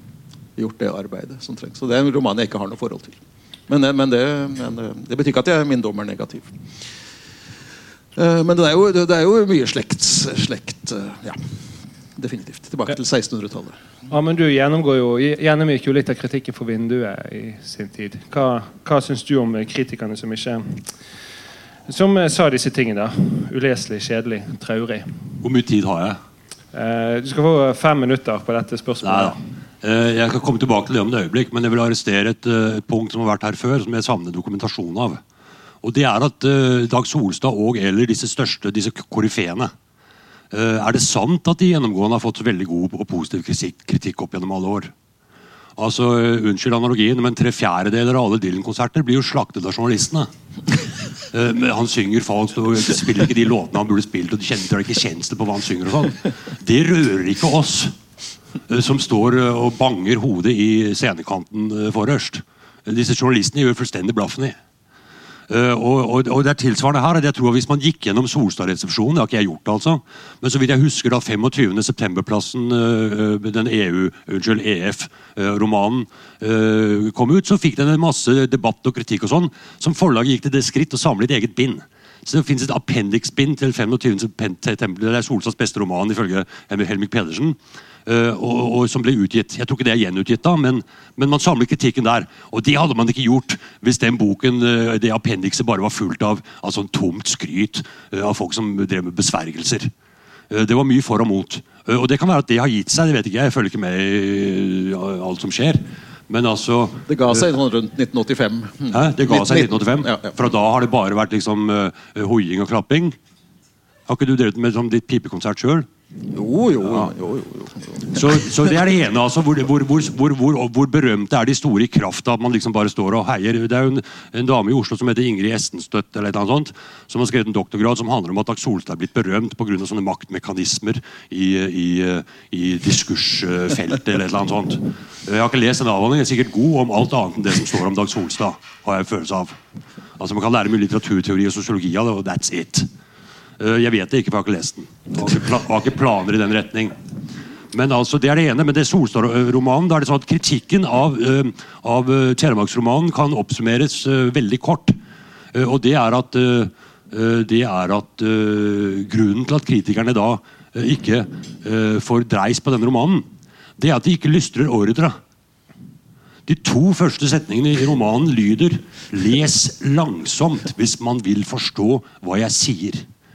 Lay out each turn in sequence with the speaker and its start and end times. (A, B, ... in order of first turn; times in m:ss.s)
0:00.6-0:06.5 A
0:08.1-0:11.4 A
0:12.2-0:13.8 A
0:14.1-0:20.9 B
0:21.9-0:25.2 B
0:25.4-0:26.2 C
0:26.7-0:29.4 B
0:29.0-0:35.2 C
0:35.8-0:39.7 C
0:40.5-0:44.9 C
0:45.8-0:50.3 C
0:51.3-0:58.0 C
0:58.7-1:04.6 C
1:05.5-1:39.9 C
1:40.5-1:47.4 C
1:47.1-1:50.4 A
1:48.9-1:53.2 C
1:54.1-1:55.9 C
1:56.3-1:58.4 A
1:56.8-1:57.1 C
1:58.1-2:19.6 C
2:20.2-2:22.9 C
2:23.6-2:27.0 C
2:27.7-2:35.0 C
2:35.5-2:43.2 C
2:43.8-2:45.2 C
2:46.5-2:53.0 C